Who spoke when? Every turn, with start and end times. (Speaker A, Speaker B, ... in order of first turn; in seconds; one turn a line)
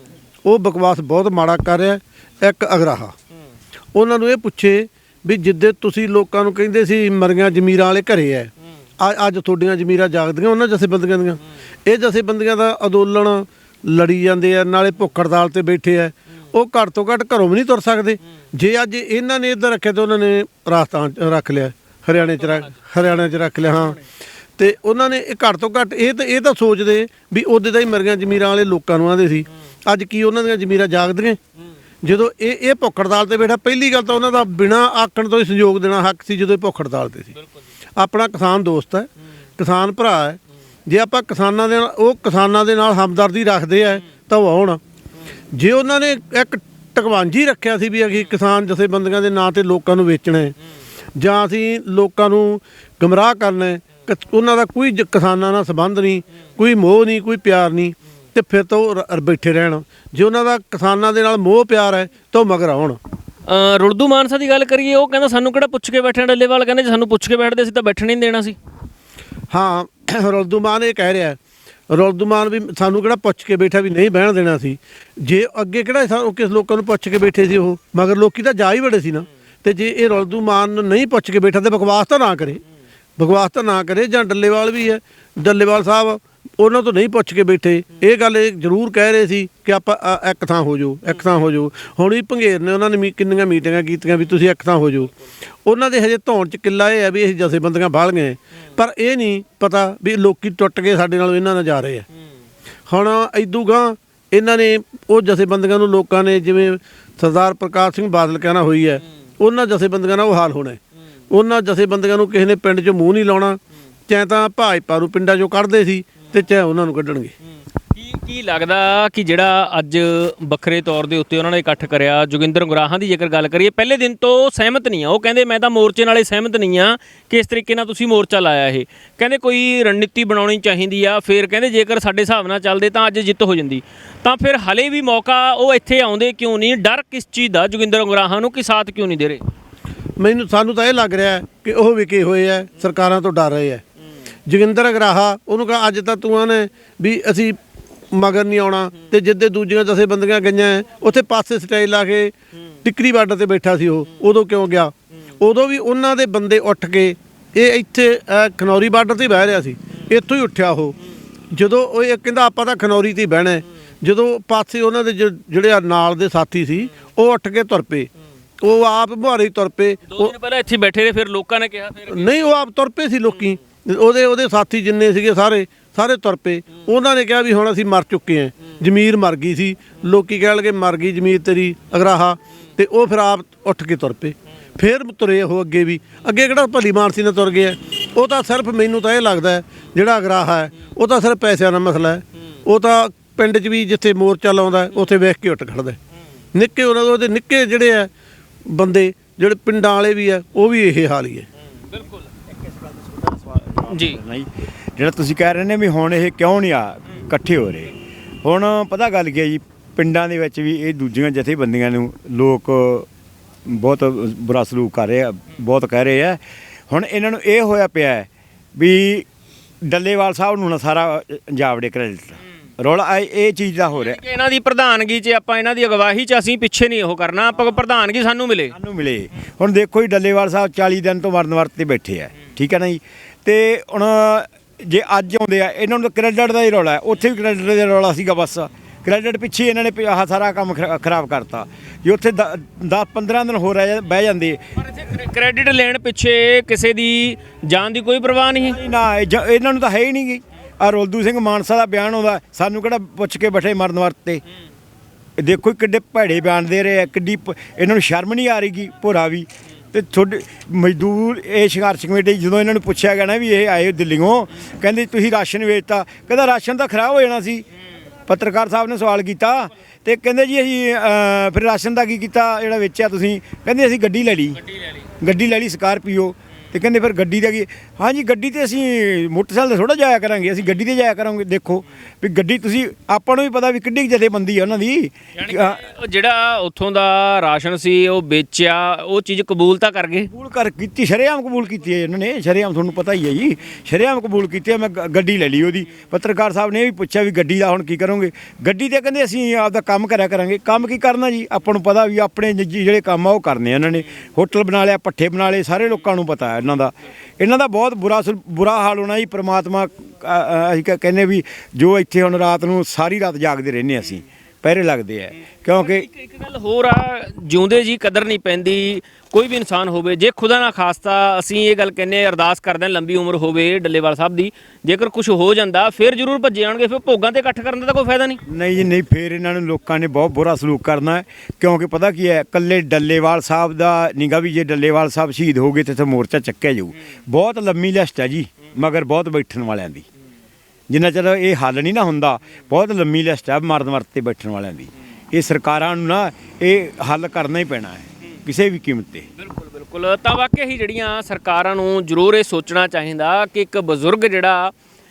Speaker A: 0.4-3.1
Speaker A: 3.9-24.0
Speaker A: 24.6-31.4
Speaker A: 32.0-37.3
Speaker A: 38.0-44.8
Speaker A: 45.5-50.5
Speaker A: 51.1-63.0
Speaker B: 63.5-68.5
Speaker A: 69.5-71.4
Speaker A: 71.9-82.6
Speaker A: 83.2-95.1
Speaker A: 95.6-102.0
Speaker A: 102.9-117.3
Speaker B: 117.9-139.4
Speaker A: 140.2-143.8
Speaker A: 144.5-147.6
Speaker A: 148.1-152.3
Speaker A: 152.8-160.9
Speaker A: 161.5-168.1
Speaker A: 168.6-170.3
Speaker B: 170.1-172.3
Speaker A: 172.1-196.0
Speaker A: 196.5-198.1
Speaker A: 198.7-201.5
Speaker B: 201.9-202.2
Speaker C: 203.1-207.9
Speaker B: 203.9-204.2
Speaker C: 208.4-213.1
Speaker C: 213.7-219.3
Speaker C: 219.8-224.2
Speaker B: 223.9-228.7
Speaker C: 228.7-244.6
Speaker B: 244.8-248.8
Speaker C: 248.6-254.4
Speaker C: 255.4-267.6
Speaker C: 268.3-274.6
Speaker C: 275.2-285.8
Speaker B: 285.4-290.3
Speaker C: 290.3-316.1
Speaker B: 315.8-328.4
Speaker C: 328.5-340.1
Speaker C: 340.9-349.2
Speaker B: 349.4-354.7